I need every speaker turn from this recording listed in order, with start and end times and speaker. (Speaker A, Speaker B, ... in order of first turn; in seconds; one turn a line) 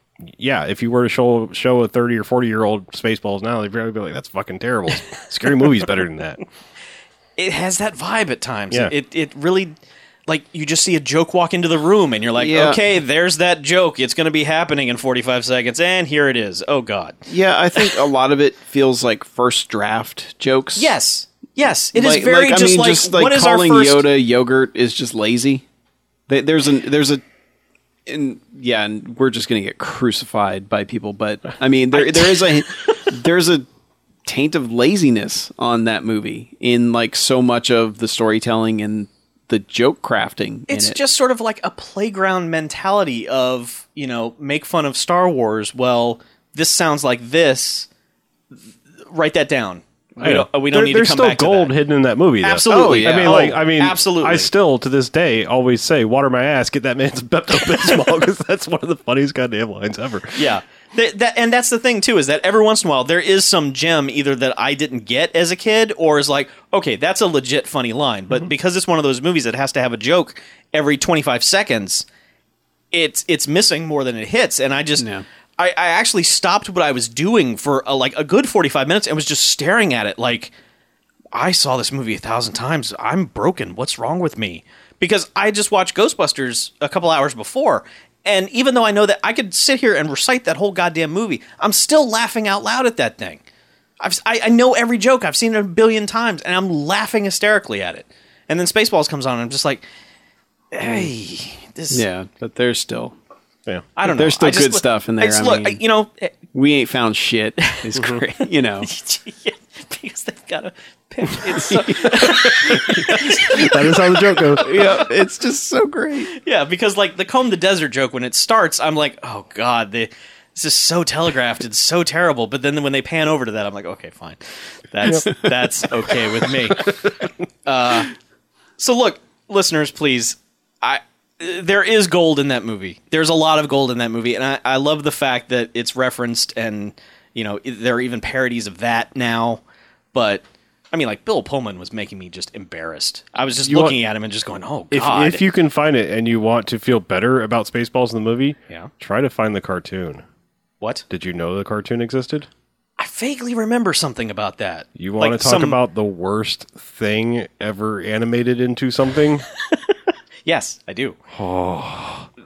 Speaker A: 0.2-6.4
Speaker B: 7.4-9.7
Speaker B: 10.3-17.2
Speaker C: 12.4-12.8
Speaker C: 17.3-20.9
Speaker B: 17.8-18.0
Speaker B: 20.8-24.1
Speaker C: 21.9-25.6
Speaker C: 26.3-27.2
Speaker C: 28.1-33.6
Speaker B: 31.9-32.6
Speaker C: 34.2-41.0
Speaker B: 40.7-47.9
Speaker B: 49.1-51.7
Speaker A: 50.2-60.5
Speaker B: 52.4-54.5
Speaker C: 52.7-53.5
Speaker B: 60.4-72.1
Speaker B: 72.9-80.5
Speaker C: 75.0-75.2
Speaker B: 81.3-93.4
Speaker B: 94.0-99.8
Speaker B: 100.7-102.0
Speaker C: 101.9-103.2
Speaker B: 104.0-106.3
Speaker C: 104.0-105.8
Speaker C: 106.5-108.9
Speaker B: 107.7-115.1
Speaker C: 111.5-112.0
Speaker A: 112.0-114.8
Speaker C: 114.6-116.3
Speaker B: 116.3-124.4
Speaker B: 124.9-127.0
Speaker B: 127.7-128.1
Speaker B: 128.8-139.6
Speaker B: 140.1-145.4
Speaker A: 143.6-144.0
Speaker A: 144.9-150.2
Speaker A: 151.1-152.5
Speaker B: 153.0-155.8
Speaker A: 155.0-159.4
Speaker B: 160.4-161.2
Speaker A: 161.3-162.3